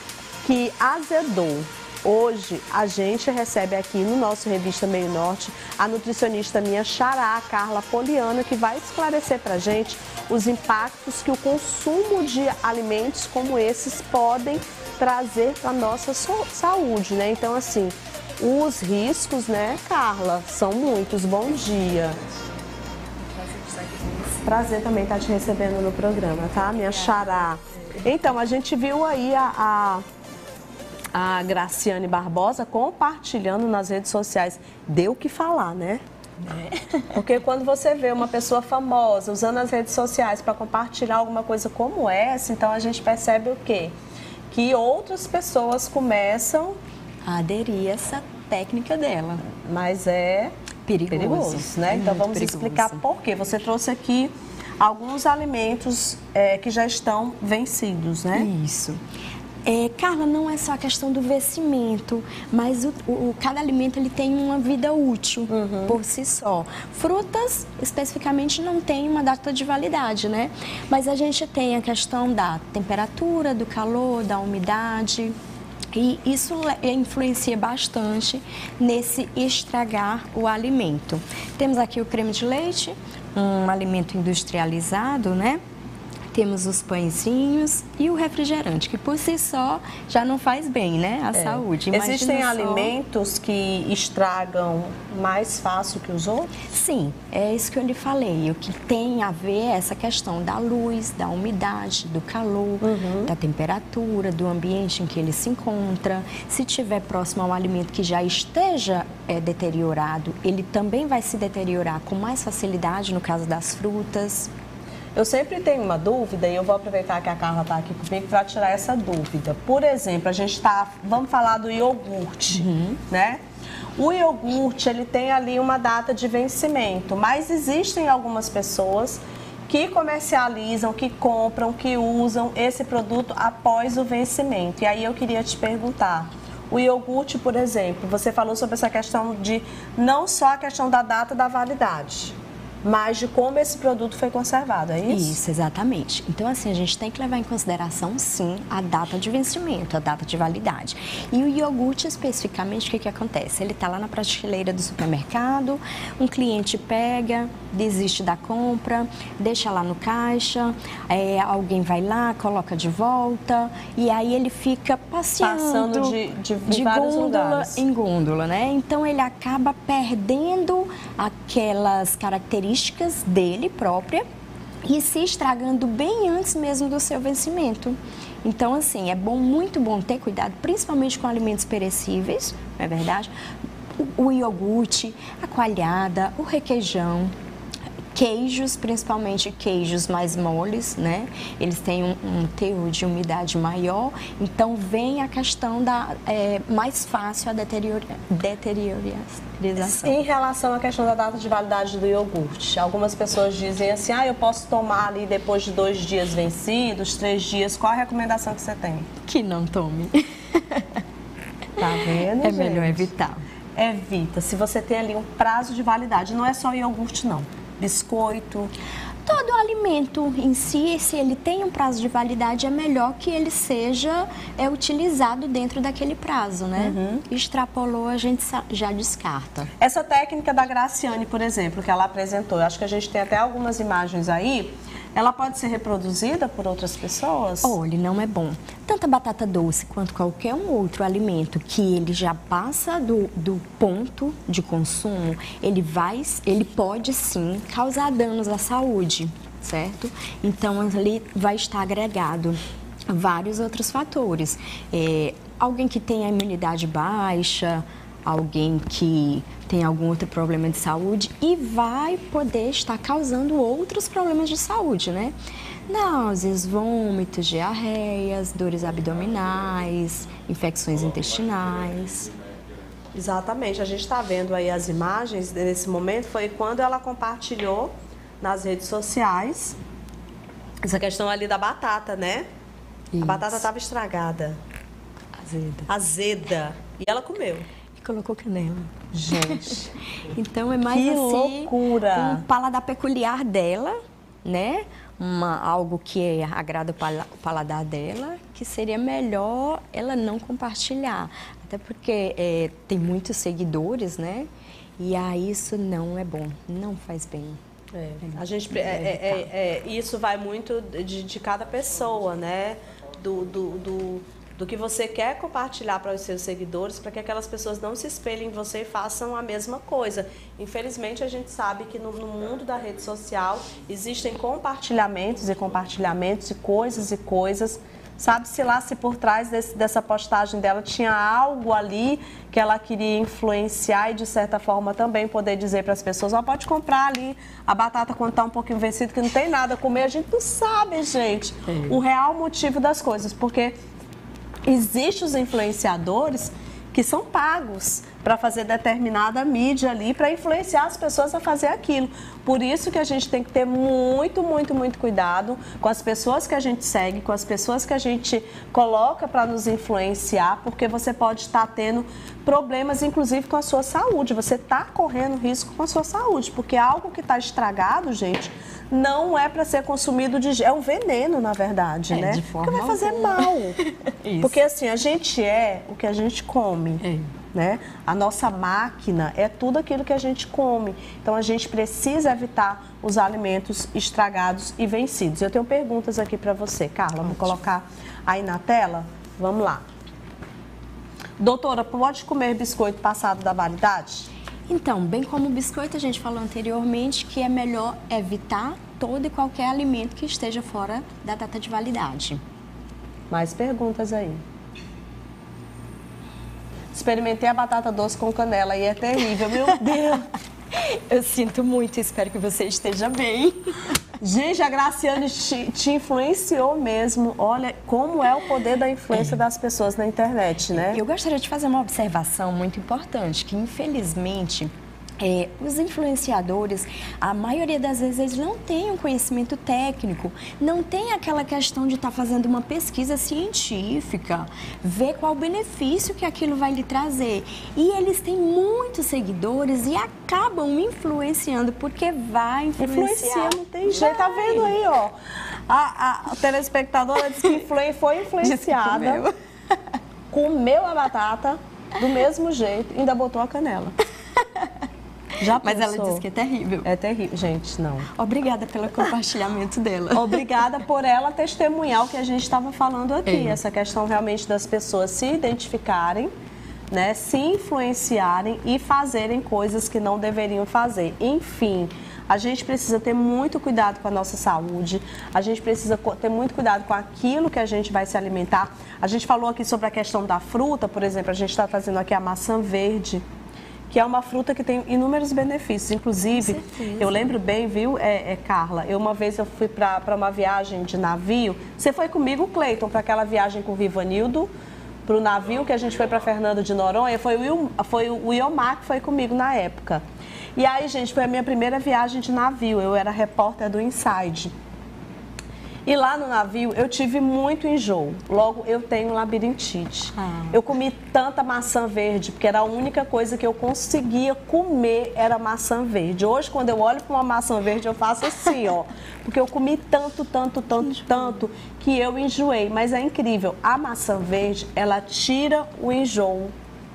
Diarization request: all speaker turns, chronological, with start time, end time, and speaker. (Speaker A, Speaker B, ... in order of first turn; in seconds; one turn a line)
Speaker A: 0.4-22.2
Speaker B: 23.2-24.6
Speaker A: 24.4-30.0
Speaker A: 31.1-36.0
Speaker B: 36.4-37.2
Speaker A: 37.1-43.9
Speaker A: 44.5-46.8
Speaker B: 47.2-49.4
Speaker A: 49.5-50.5
Speaker B: 50.9-53.0
Speaker A: 51.1-58.5
Speaker B: 58.3-59.0
Speaker B: 59.6-75.3
Speaker A: 65.5-66.0
Speaker B: 75.9-85.6
Speaker B: 86.3-92.9
Speaker A: 91.3-96.5
Speaker B: 96.7-114.5
Speaker A: 102.8-103.3
Speaker A: 115.1-123.4
Speaker B: 122.6-123.0
Speaker A: 124.0-145.4
Speaker B: 145.1-166.2
Speaker A: 165.4-167.8
Speaker B: 166.7-174.2
Speaker B: 174.8-183.3
Speaker B: 183.9-187.3
Speaker B: 188.1-200.2
Speaker A: 199.8-209.1
Speaker B: 209.2-211.0
Speaker A: 211.8-213.1
Speaker B: 212.4-213.4
Speaker A: 213.8-218.7
Speaker B: 219.2-229.7
Speaker A: 226.8-227.2
Speaker A: 229.8-237.8
Speaker B: 237.6-252.6
Speaker B: 253.1-265.3
Speaker B: 265.9-272.3
Speaker A: 273.1-279.8
Speaker A: 280.8-282.4
Speaker B: 283.1-283.6
Speaker A: 283.2-284.6
Speaker B: 285.4-285.9
Speaker A: 285.9-287.7
Speaker B: 288.0-304.5
Speaker A: 289.1-289.9
Speaker A: 290.9-292.4
Speaker B: 305.0-307.6
Speaker A: 307.9-343.8
Speaker B: 308.2-309.5
Speaker A: 344.6-373.8
Speaker B: 372.1-374.6
Speaker A: 374.4-389.8
Speaker B: 377.0-377.3
Speaker B: 387.2-387.5
Speaker A: 391.4-394.3
Speaker B: 394.7-402.4
Speaker A: 403.3-404.4
Speaker A: 406.9-410.2
Speaker B: 409.8-410.1
Speaker B: 410.7-413.6
Speaker A: 414.2-421.0
Speaker B: 420.7-444.8
Speaker A: 442.8-445.1
Speaker A: 445.7-449.2
Speaker B: 448.4-449.8
Speaker A: 450.3-453.9
Speaker B: 454.4-454.7
Speaker A: 455.4-456.2
Speaker B: 455.6-456.9
Speaker A: 456.8-458.1
Speaker B: 458.1-460.5
Speaker A: 460.1-466.3
Speaker B: 463.2-463.6
Speaker A: 466.9-483.2
Speaker A: 483.9-494.5
Speaker B: 486.2-487.4
Speaker A: 495.1-500.0
Speaker A: 500.6-504.5
Speaker A: 505.9-526.5
Speaker B: 510.2-510.6
Speaker B: 520.9-521.4